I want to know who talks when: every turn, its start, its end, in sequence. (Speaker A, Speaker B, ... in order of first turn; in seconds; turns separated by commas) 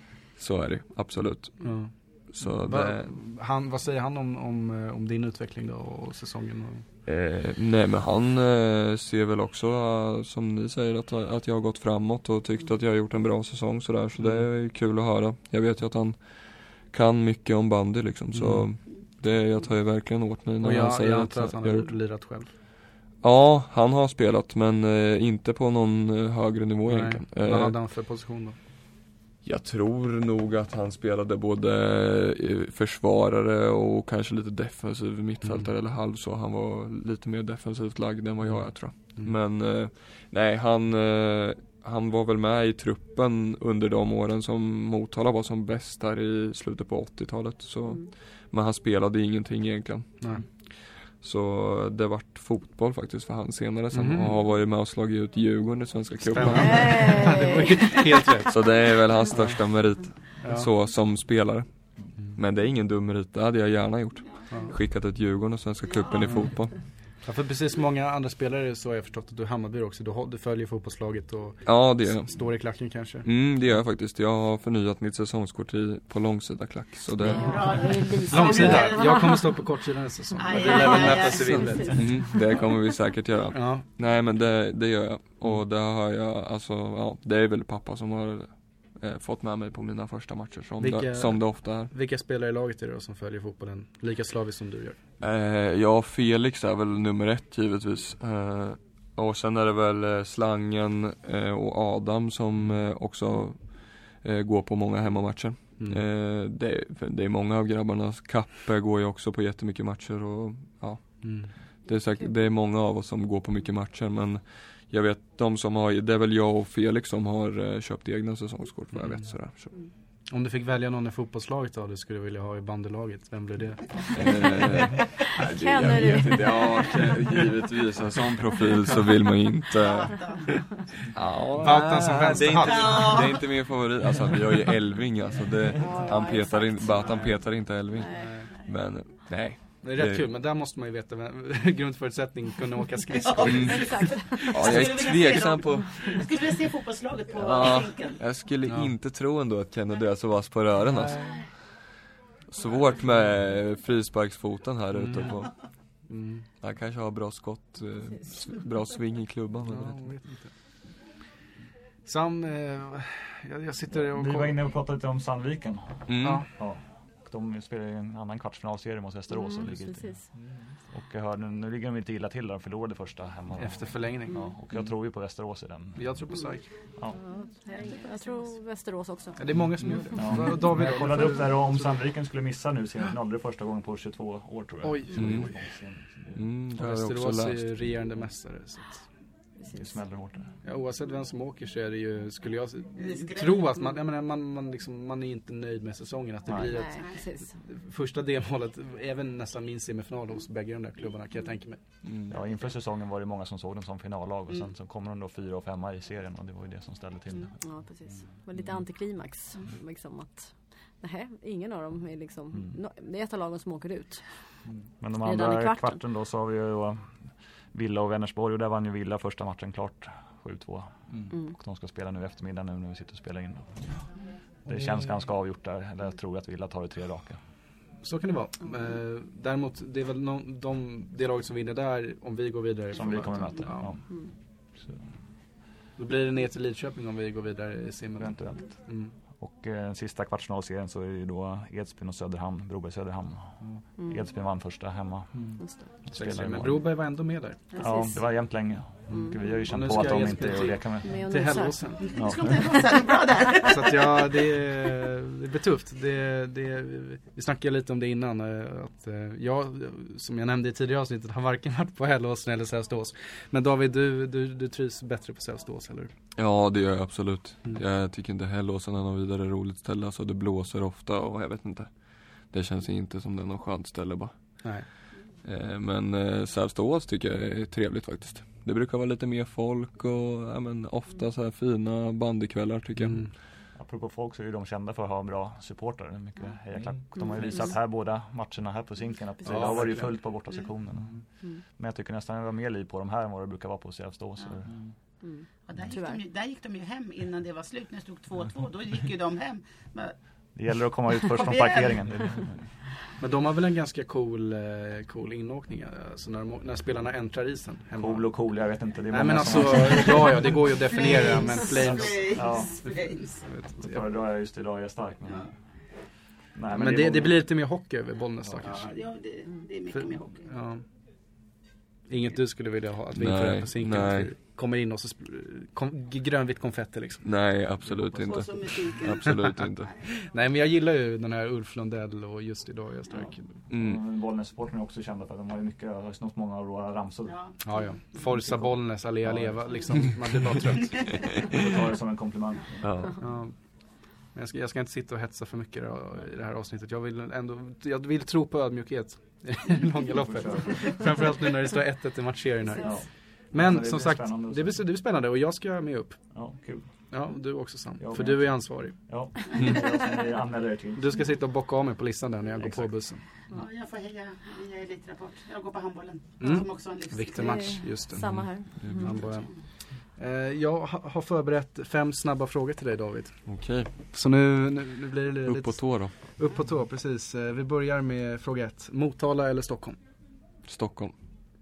Speaker A: 0.4-3.1, Speaker B: 1.6-6.8, Speaker A: 7.0-21.9, Speaker B: 14.2-14.5, Speaker B: 18.3-18.7, Speaker B: 20.6-22.5, Speaker A: 23.2-27.8, Speaker B: 26.9-28.6, Speaker A: 29.4-50.2, Speaker B: 35.4-35.7, Speaker B: 38.5-39.3, Speaker A: 51.2-57.3, Speaker B: 53.9-54.3, Speaker B: 56.3-58.6, Speaker C: 56.5-58.1, Speaker A: 58.5-61.7, Speaker B: 59.3-59.6, Speaker B: 60.4-60.7, Speaker A: 62.2-66.8, Speaker B: 66.2-66.5, Speaker B: 67.2-73.3, Speaker A: 71.7-72.3, Speaker A: 73.2-77.8, Speaker C: 77.2-79.4, Speaker D: 77.3-79.3, Speaker B: 78.2-82.2, Speaker D: 80.4-82.0, Speaker A: 81.3-91.9, Speaker B: 83.5-83.8, Speaker B: 90.8-95.0, Speaker A: 95.2-119.8, Speaker B: 111.2-111.5, Speaker B: 118.9-119.3, Speaker B: 120.3-124.5, Speaker A: 124.2-130.4, Speaker C: 124.9-127.3, Speaker D: 129.8-130.5, Speaker A: 131.1-140.2, Speaker B: 131.6-133.2, Speaker D: 132.6-133.4, Speaker C: 135.8-137.3, Speaker C: 138.0-138.4, Speaker B: 138.1-138.5, Speaker B: 139.8-144.5, Speaker D: 143.3-148.2, Speaker A: 143.4-146.2, Speaker C: 143.7-144.6, Speaker A: 147.3-151.5, Speaker B: 148.7-148.9, Speaker A: 152.5-155.5, Speaker B: 155.0-155.4, Speaker B: 156.1-156.5, Speaker A: 156.6-160.1, Speaker B: 159.7-160.5, Speaker B: 162.0-164.6, Speaker E: 163.9-170.2, Speaker A: 166.1-166.4, Speaker B: 166.2-166.5, Speaker C: 169.3-170.2, Speaker E: 170.9-176.0, Speaker B: 173.6-174.5, Speaker B: 176.0-176.7, Speaker C: 177.2-179.5, Speaker B: 179.4-182.0, Speaker E: 180.2-186.4, Speaker B: 184.8-185.6, Speaker A: 185.2-185.5, Speaker A: 186.3-187.7, Speaker B: 186.8-189.0, Speaker E: 189.7-190.5, Speaker B: 190.6-201.8, Speaker D: 193.0-193.6, Speaker C: 196.6-197.5, Speaker A: 202.0-202.3, Speaker E: 202.3-207.5, Speaker C: 207.6-214.2, Speaker E: 215.0-217.2, Speaker C: 215.2-216.0, Speaker E: 217.7-223.8, Speaker E: 224.7-227.4, Speaker B: 224.7-224.9, Speaker B: 228.0-233.9, Speaker E: 232.9-234.0, Speaker B: 236.0-239.1, Speaker E: 238.2-238.8, Speaker E: 239.4-245.5, Speaker E: 246.1-246.8, Speaker B: 246.1-247.7, Speaker E: 247.8-251.1, Speaker B: 249.1-252.1, Speaker C: 251.0-251.9, Speaker D: 252.0-254.3, Speaker E: 252.2-252.8, Speaker B: 253.6-266.1, Speaker A: 266.4-271.9, Speaker A: 272.4-283.3, Speaker B: 283.0-283.3, Speaker E: 283.8-294.8, Speaker B: 289.4-290.1, Speaker C: 295.2-296.2, Speaker D: 295.6-300.1, Speaker E: 300.5-302.6, Speaker D: 301.3-302.0, Speaker B: 303.2-308.3, Speaker E: 308.0-310.5, Speaker B: 309.1-312.4, Speaker D: 310.9-313.4, Speaker E: 311.8-312.9, Speaker B: 313.4-314.0, Speaker E: 313.8-315.5, Speaker E: 316.5-317.4, Speaker B: 316.7-318.9, Speaker D: 318.6-320.4, Speaker B: 319.9-320.8, Speaker B: 322.1-327.2, Speaker A: 323.1-324.3, Speaker A: 327.2-329.9, Speaker D: 328.2-329.4, Speaker B: 330.0-333.5, Speaker A: 333.7-334.0, Speaker E: 333.7-337.5, Speaker D: 337.3-337.6, Speaker B: 337.6-341.1, Speaker E: 339.3-339.5, Speaker E: 341.5-342.9, Speaker A: 342.8-343.2, Speaker B: 343.2-343.6, Speaker B: 344.3-356.2, Speaker E: 350.2-351.0, Speaker E: 352.8-354.8, Speaker E: 356.3-356.9, Speaker B: 357.1-358.9, Speaker E: 358.0-361.2, Speaker B: 361.0-363.2, Speaker E: 362.6-362.9, Speaker D: 363.5-367.8, Speaker B: 366.4-369.5, Speaker C: 367.4-369.2, Speaker A: 368.8-369.1, Speaker B: 370.2-373.4, Speaker A: 373.5-373.9, Speaker B: 374.1-380.0, Speaker A: 375.5-376.1, Speaker A: 380.7-381.1